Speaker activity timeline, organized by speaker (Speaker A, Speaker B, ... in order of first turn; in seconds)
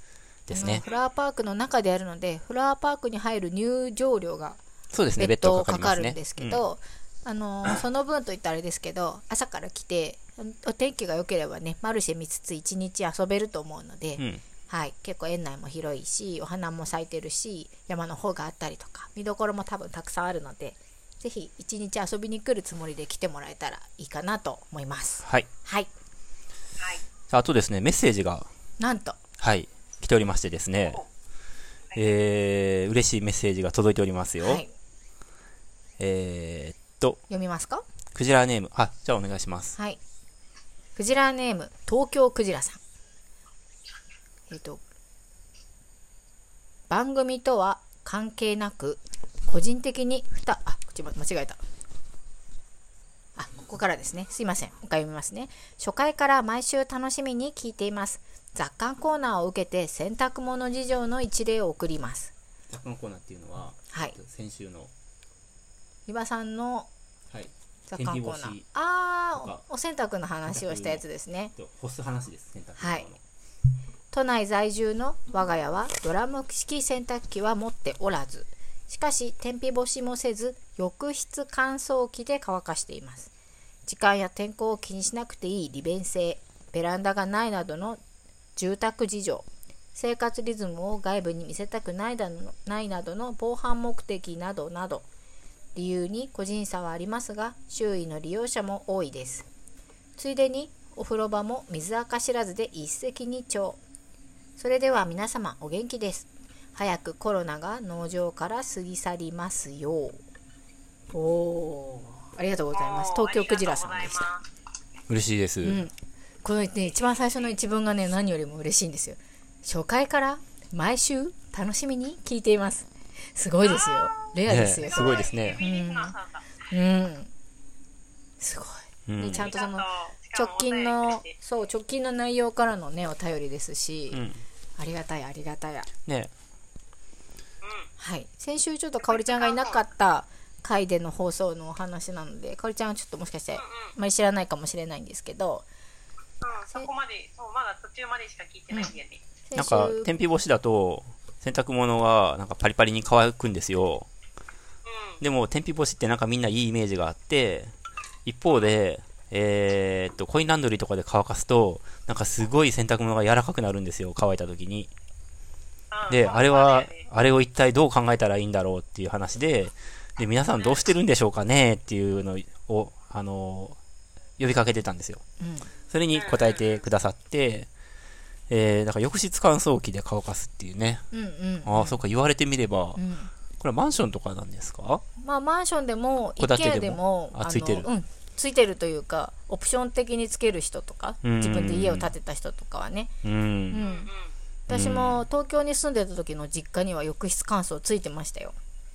Speaker A: 0.5-0.8, 4.9-6.6, 27.3-28.5, 29.4-31.0, 31.9-34.6, 36.0-37.2, 38.1-39.7, 62.7-64.9, 67.3-68.6, 69.4-69.6, 70.5-71.0, 71.6-73.2, 115.1-115.8, 124.5-125.6, 129.1-129.5, 134.1-134.4, 136.1-136.3, 149.6-154.1, 155.2-157.7, 158.2-164.9, 166.1-173.8, 174.4-175.2, 175.9-177.7, 178.5-181.1, 181.6-183.0, 183.6-185.0, 186.4-187.9, 191.2-192.1, 193.2-193.8, 194.7-195.2
Speaker B: 0.5-4.6, 5.2-25.9, 28.8-29.2, 34.4-34.7, 37.3-37.8, 41.0-42.8, 44.5-44.8, 46.9-51.6, 53.4-62.3, 63.9-64.2, 66.1-66.9, 67.9-71.5, 72.8-73.1, 74.1-83.3, 83.9-88.0, 88.6-95.0, 95.7-99.5, 100.2-103.8, 104.6-110.2, 111.1-114.3, 115.6-126.1, 126.7-127.3, 128.4-134.2, 134.8-135.9, 138.0-145.7, 149.5-150.1, 175.4-175.7, 181.1-182.0, 182.9-183.3, 185.2-193.1, 193.7-194.1, 194.7-198.6
Speaker C: 0.6-1.0, 26.8-27.0, 112.7-114.4, 123.6-126.5, 129.3-131.4, 137.6-137.9, 139.0-139.8, 143.5-143.9, 146.4-149.2, 154.8-155.2, 165.9-167.1, 176.1-176.8, 193.8-194.3